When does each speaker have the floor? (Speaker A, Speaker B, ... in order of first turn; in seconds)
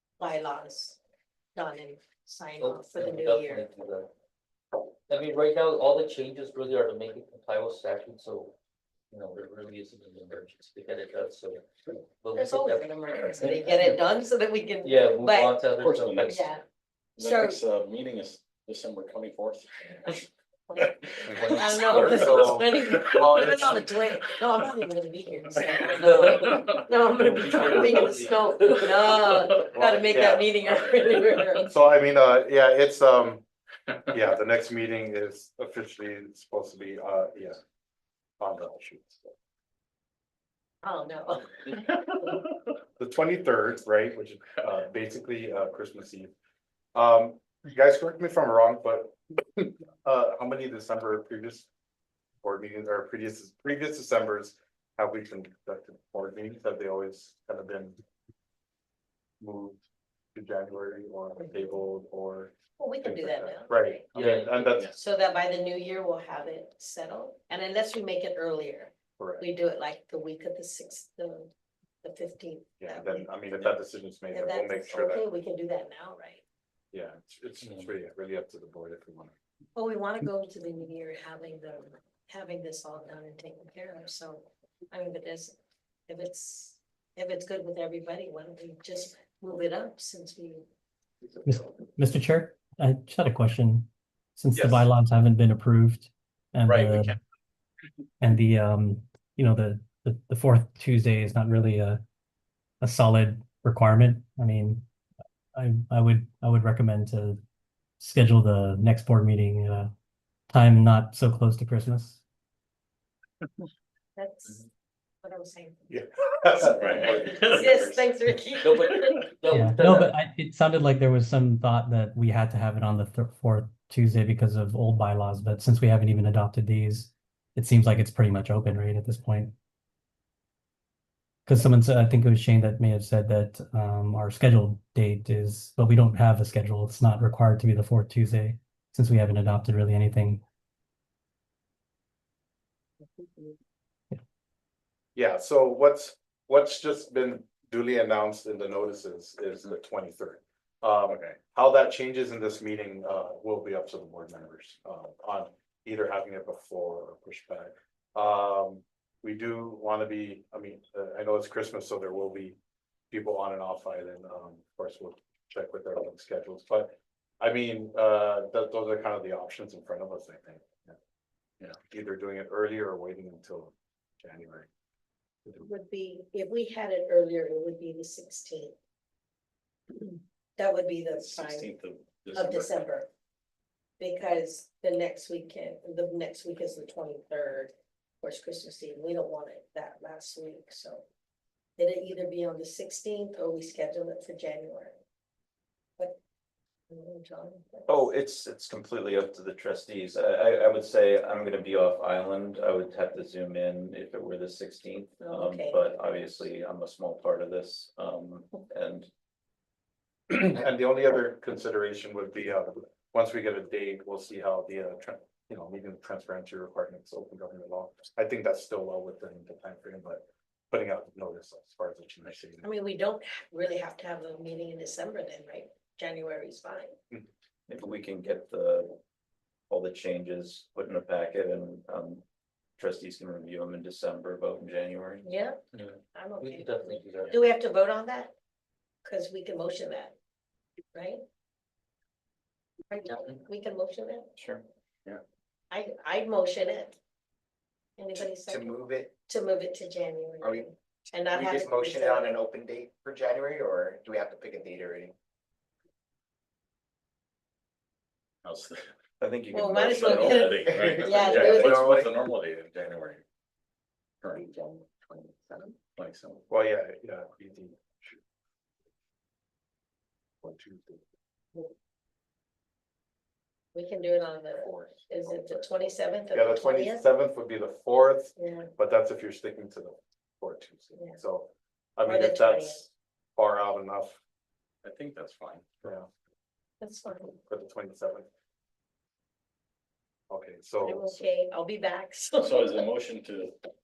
Speaker A: 0.2-1.0, 1.5-3.7, 12.3-15.5, 16.3-16.6, 17.2-17.6, 20.7-31.7, 40.8-41.6, 62.8-64.0, 64.9-73.3, 74.3-76.4, 79.8-85.5, 86.1-90.7, 114.2-114.7, 115.2-115.9, 116.8-119.3, 143.2-143.5, 175.6-178.7, 180.0-181.7, 182.3-183.1, 184.0-191.0, 191.8-195.0, 196.9-197.9, 205.2-205.9, 222.6-226.9, 235.2-235.6, 236.1-238.3, 239.0-240.2, 240.9-241.2, 242.9-244.3, 245.7-247.0, 248.0-252.4, 259.5-261.9, 273.7-277.0, 278.4-278.7, 282.0-282.8, 286.8-287.4, 290.8-292.8
Speaker B: 2.6-4.1, 5.1-8.5, 9.1-13.8, 14.8-16.5, 25.9-29.1, 64.1-64.9, 118.6-120.1, 235.7-237.3
Speaker C: 15.8-16.5, 17.2-23.7, 26.3-28.1, 94.5-94.9, 96.7-97.1, 116.7-118.1, 151.1-151.4, 181.1-182.9, 258.4-258.9, 259.8-263.2, 264.2-266.4, 284.8-285.8, 292.4-293.5
Speaker D: 21.2-22.7, 29.6-30.5, 31.6-33.4, 34.1-37.6, 38.4-39.3, 43.0-46.3, 46.9-51.7, 52.4-58.0, 59.4-64.9, 69.2-69.5, 72.8-75.2, 76.9-79.3, 115.9-117.3, 145.2-162.6, 163.1-170.9, 171.8-174.7, 210.3-222.7, 266.5-268.2, 270.4-271.0, 274.7-275.7, 276.3-284.2, 285.8-286.1, 287.5-288.3, 290.3-291.2
Speaker E: 91.4-97.1, 98.2-102.0, 102.8-104.8, 105.5-107.4, 108.0-109.9, 110.5-112.2, 119.5-129.5, 131.4-140.4
Speaker F: 197.9-209.1, 227.7-229.0, 229.7-232.2, 232.8-235.3, 244.4-244.6, 259.2-260.5, 261.3-261.6
Speaker G: 248.1-249.1, 250.4-250.7, 251.2-255.1, 260.9-262.1